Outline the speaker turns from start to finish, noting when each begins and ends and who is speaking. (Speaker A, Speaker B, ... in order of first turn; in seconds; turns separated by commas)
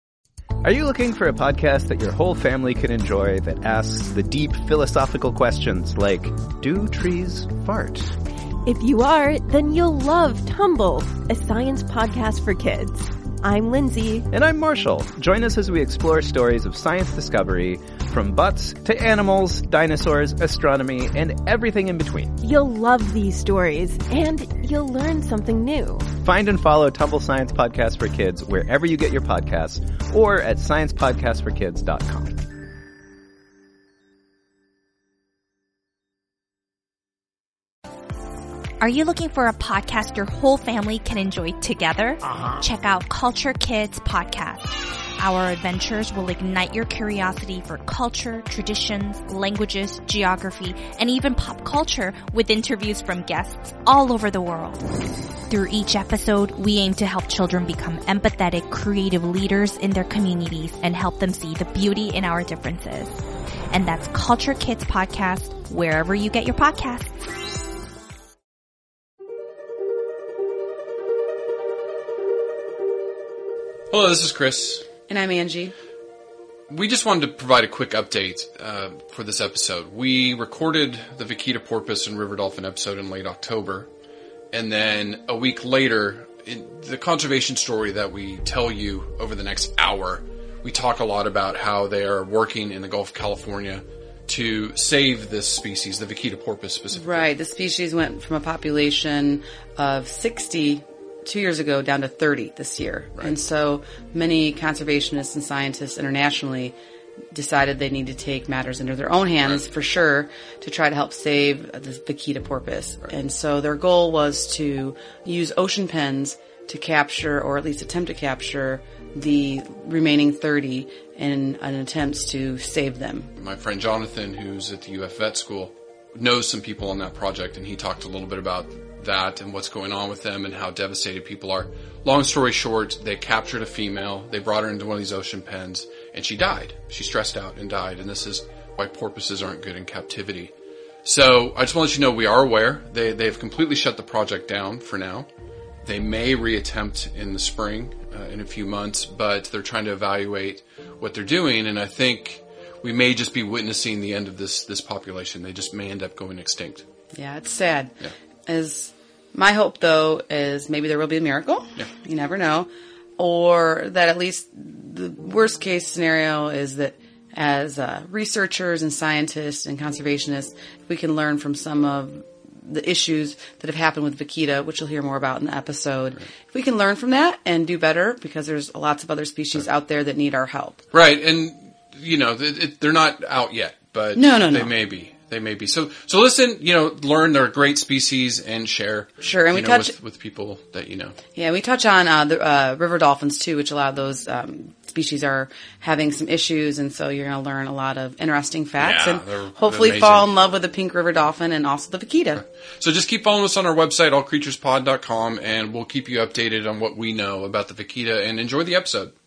Speaker A: 0.6-8.2, Speaker B: 8.7-14.3, Speaker A: 14.3-22.4, Speaker B: 22.4-26.1, Speaker A: 26.1-32.4, Speaker C: 38.8-54.9, Speaker C: 55.5-63.2, Speaker C: 63.7-67.2, Speaker D: 73.9-74.9, Speaker E: 75.1-75.8, Speaker D: 76.7-83.9, Speaker D: 84.5-97.3, Speaker E: 96.9-106.8, Speaker E: 107.3-123.3, Speaker D: 123.4-140.5, Speaker D: 141.1-145.3, Speaker D: 145.8-156.9, Speaker E: 157.1-157.9, Speaker E: 158.5-180.8, Speaker D: 180.9-191.2, Speaker E: 184.2-184.7, Speaker E: 189.2-189.9, Speaker E: 191.4-202.4, Speaker D: 198.8-200.5, Speaker D: 202.4-209.2